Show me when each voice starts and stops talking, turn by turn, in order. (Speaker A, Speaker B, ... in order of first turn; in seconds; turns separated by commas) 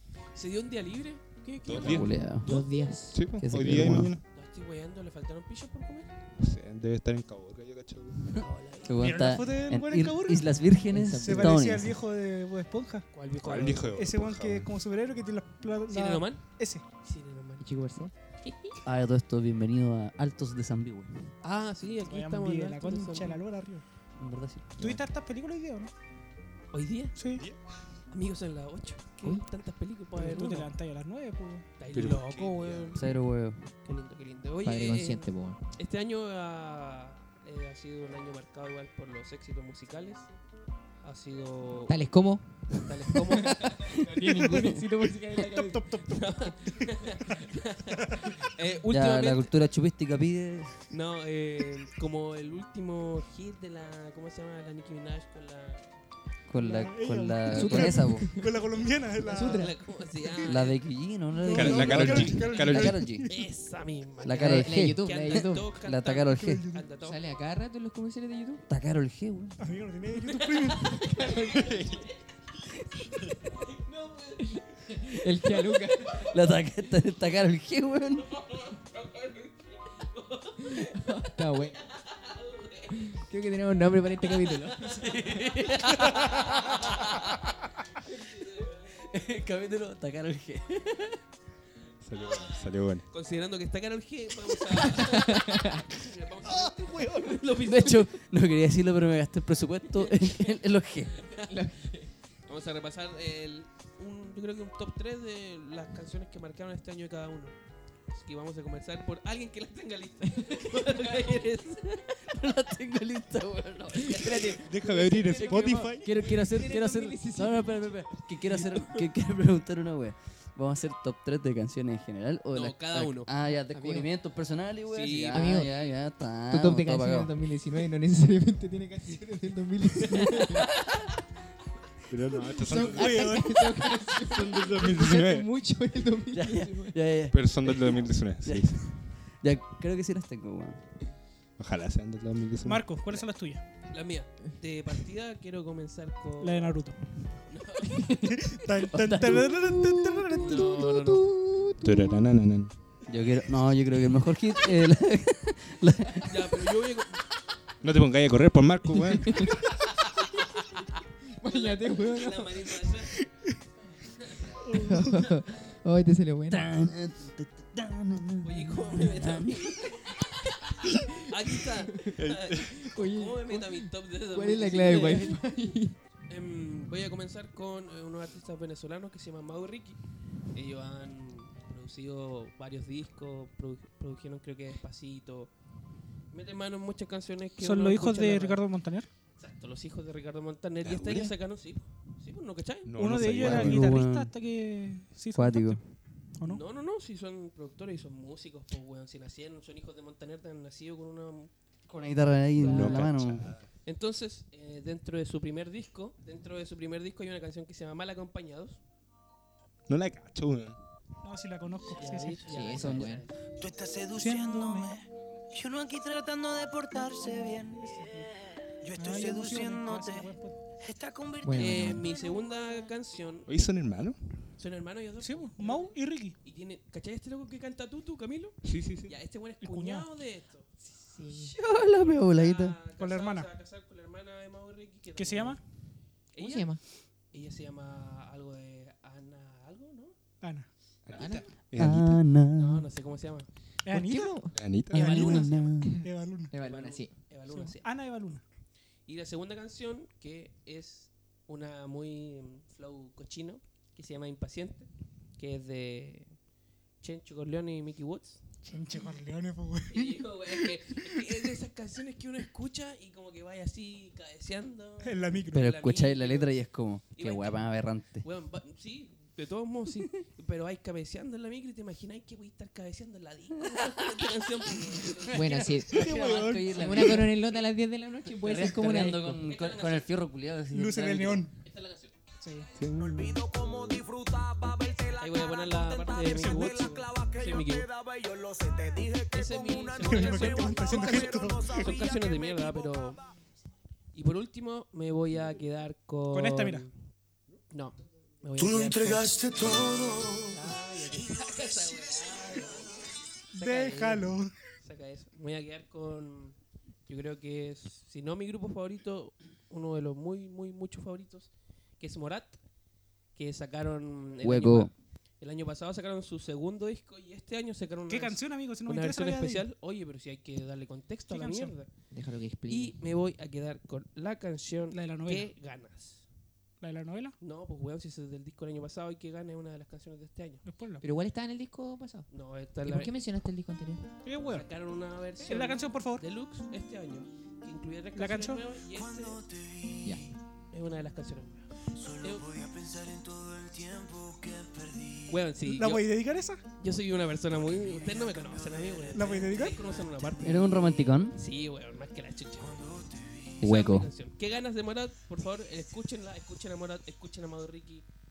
Speaker A: 0.3-2.7, Speaker B: 1.6-2.3, Speaker C: 1.8-2.5, Speaker D: 2.4-3.2, Speaker B: 3.1-4.2, Speaker C: 3.4-4.2, Speaker A: 4.3-6.1, Speaker B: 6.4-8.2, Speaker A: 8.4-9.0, Speaker C: 8.8-11.9, Speaker E: 9.0-10.6, Speaker D: 10.9-11.9, Speaker E: 11.2-13.1, Speaker A: 13.1-14.0, Speaker B: 13.4-14.8, Speaker E: 13.9-16.8, Speaker A: 15.9-17.6, Speaker D: 17.6-18.1, Speaker C: 18.8-21.3, Speaker A: 21.4-23.4, Speaker E: 22.0-23.8, Speaker C: 24.2-25.0, Speaker E: 24.8-25.9, Speaker A: 26.7-27.2, Speaker E: 27.1-27.5, Speaker B: 27.3-27.6, Speaker A: 28.1-30.7, Speaker E: 30.1-31.6, Speaker A: 31.8-33.2, Speaker B: 31.9-33.0, Speaker C: 32.9-33.7, Speaker A: 33.8-40.3, Speaker D: 34.6-35.6, Speaker A: 41.0-42.0, Speaker D: 41.9-42.9, Speaker A: 42.8-44.0, Speaker D: 43.4-45.8, Speaker C: 44.3-44.8, Speaker E: 45.1-48.3, Speaker A: 45.3-49.5, Speaker C: 48.9-50.8, Speaker A: 50.9-55.9, Speaker C: 56.5-58.4, Speaker E: 56.6-59.8, Speaker D: 57.5-58.5, Speaker D: 59.2-59.8, Speaker A: 59.4-60.8, Speaker C: 60.4-63.3, Speaker E: 61.4-63.4, Speaker D: 61.5-61.9, Speaker B: 61.5-63.0, Speaker A: 63.3-67.2, Speaker C: 64.2-66.7, Speaker D: 64.3-65.6, Speaker E: 66.3-66.8, Speaker D: 67.0-68.6, Speaker C: 68.7-69.6, Speaker E: 69.6-71.0, Speaker A: 70.2-72.1, Speaker D: 70.9-71.9, Speaker B: 71.5-72.0, Speaker A: 73.6-74.6, Speaker D: 74.4-76.4, Speaker C: 76.2-78.4, Speaker A: 78.4-81.2, Speaker D: 80.6-81.9, Speaker A: 81.8-83.2, Speaker D: 82.9-85.2, Speaker A: 84.5-87.3, Speaker C: 85.1-87.3, Speaker A: 88.1-89.3, Speaker C: 88.9-91.2, Speaker B: 92.0-93.0, Speaker A: 92.1-98.1, Speaker D: 94.9-95.8, Speaker C: 97.4-101.2, Speaker A: 101.2-101.5, Speaker D: 101.4-102.1, Speaker A: 102.5-107.5, Speaker A: 108.1-112.0, Speaker C: 112.2-114.7, Speaker A: 113.9-115.9, Speaker B: 114.6-116.1, Speaker E: 115.2-115.9, Speaker C: 115.3-127.3, Speaker D: 116.2-118.0, Speaker A: 118.1-119.1, Speaker A: 122.5-123.3, Speaker D: 123.5-124.1, Speaker A: 124.9-125.9, Speaker D: 125.3-125.7, Speaker D: 126.3-130.7, Speaker B: 132.1-133.5, Speaker D: 132.5-137.0, Speaker E: 132.7-133.6, Speaker B: 134.2-135.5, Speaker C: 136.3-140.8, Speaker B: 137.3-139.0, Speaker B: 141.6-142.9, Speaker E: 142.6-143.6, Speaker A: 143.9-146.8, Speaker E: 146.4-147.0, Speaker A: 147.5-148.1, Speaker C: 147.9-148.3, Speaker E: 148.2-150.9, Speaker C: 148.9-152.2, Speaker A: 150.4-151.3, Speaker B: 151.8-152.8, Speaker C: 153.1-156.6, Speaker A: 156.2-157.2, Speaker B: 157.8-159.6, Speaker D: 161.4-162.9, Speaker A: 161.4-163.2, Speaker A: 164.2-164.5, Speaker E: 164.6-165.3, Speaker D: 164.7-166.8, Speaker C: 166.5-169.8, Speaker A: 168.4-175.4, Speaker B: 172.2-172.8, Speaker D: 172.8-175.9, Speaker A: 176.3-180.0, Speaker A: 180.5-185.5, Speaker A: 186.3-188.6, Speaker E: 187.6-189.1, Speaker A: 189.4-193.0, Speaker B: 190.8-191.3, Speaker B: 192.8-194.0, Speaker E: 192.9-195.8, Speaker C: 193.4-194.3, Speaker C: 195.3-195.9, Speaker E: 196.4-196.6, Speaker A: 196.4-201.5, Speaker C: 201.9-203.6, Speaker A: 202.5-203.1, Speaker B: 202.6-203.7, Speaker A: 203.8-208.8, Speaker B: 209.9-210.8, Speaker E: 211.2-213.0, Speaker A: 211.9-213.3, Speaker D: 212.4-213.2, Speaker F: 213.6-218.3, Speaker E: 214.2-214.9, Speaker E: 217.8-218.3, Speaker F: 218.8-222.4, Speaker E: 218.9-220.6, Speaker D: 221.4-222.1, Speaker A: 221.6-223.5, Speaker B: 223.5-224.5, Speaker A: 224.6-230.7, Speaker E: 225.2-226.4, Speaker B: 228.6-229.1, Speaker E: 229.6-230.1, Speaker D: 230.8-231.5, Speaker C: 231.4-232.8, Speaker A: 231.8-235.6, Speaker E: 233.0-233.5, Speaker E: 235.2-235.6, Speaker A: 236.3-236.8, Speaker D: 236.4-236.8, Speaker A: 237.3-240.1, Speaker E: 240.4-240.7, Speaker B: 241.1-242.3, Speaker D: 241.2-241.4, Speaker C: 241.8-242.9, Speaker A: 242.5-243.5, Speaker E: 243.8-246.5, Speaker D: 243.9-244.6, Speaker B: 244.5-245.2, Speaker C: 244.9-246.0, Speaker A: 245.0-245.7, Speaker D: 245.1-247.1, Speaker A: 246.6-247.9, Speaker E: 247.5-248.4, Speaker A: 249.1-256.3, Speaker A: 257.0-258.4, Speaker E: 258.6-261.4, Speaker A: 259.9-266.6, Speaker E: 265.0-265.7, Speaker C: 265.5-268.2, Speaker A: 267.1-275.4, Speaker D: 275.3-276.2, Speaker E: 275.9-277.3, Speaker C: 275.9-277.3, Speaker D: 276.7-279.4, Speaker C: 278.4-281.5, Speaker A: 279.4-280.1, Speaker E: 280.7-281.5, Speaker A: 281.6-282.1, Speaker E: 282.4-282.7, Speaker B: 282.8-284.0, Speaker F: 283.0-293.2, Speaker A: 285.2-287.9, Speaker E: 286.2-287.1, Speaker A: 289.3-293.2, Speaker E: 290.0-291.9, Speaker A: 294.1-296.9, Speaker E: 296.3-296.9, Speaker A: 297.7-306.6, Speaker F: 298.6-300.6, Speaker E: 303.5-304.5, Speaker A: 307.1-312.6, Speaker A: 313.3-321.9, Speaker C: 314.4-314.9, Speaker E: 318.1-319.6, Speaker E: 321.3-321.8, Speaker D: 322.1-323.0, Speaker A: 322.7-326.2, Speaker E: 324.9-325.5, Speaker E: 326.8-327.4, Speaker A: 327.4-330.6, Speaker E: 330.6-331.0, Speaker D: 331.0-332.3, Speaker A: 332.3-333.1, Speaker D: 332.8-334.0, Speaker E: 334.2-334.7, Speaker A: 334.5-339.4, Speaker E: 335.4-336.2, Speaker E: 338.1-338.6, Speaker F: 339.0-340.3, Speaker D: 340.0-340.3, Speaker A: 340.7-341.7, Speaker F: 342.0-345.3, Speaker A: 342.2-342.5, Speaker A: 345.3-346.1, Speaker E: 345.6-346.6, Speaker A: 346.8-353.1, Speaker E: 349.1-349.8, Speaker C: 350.4-351.4, Speaker A: 353.6-358.0, Speaker C: 353.6-354.1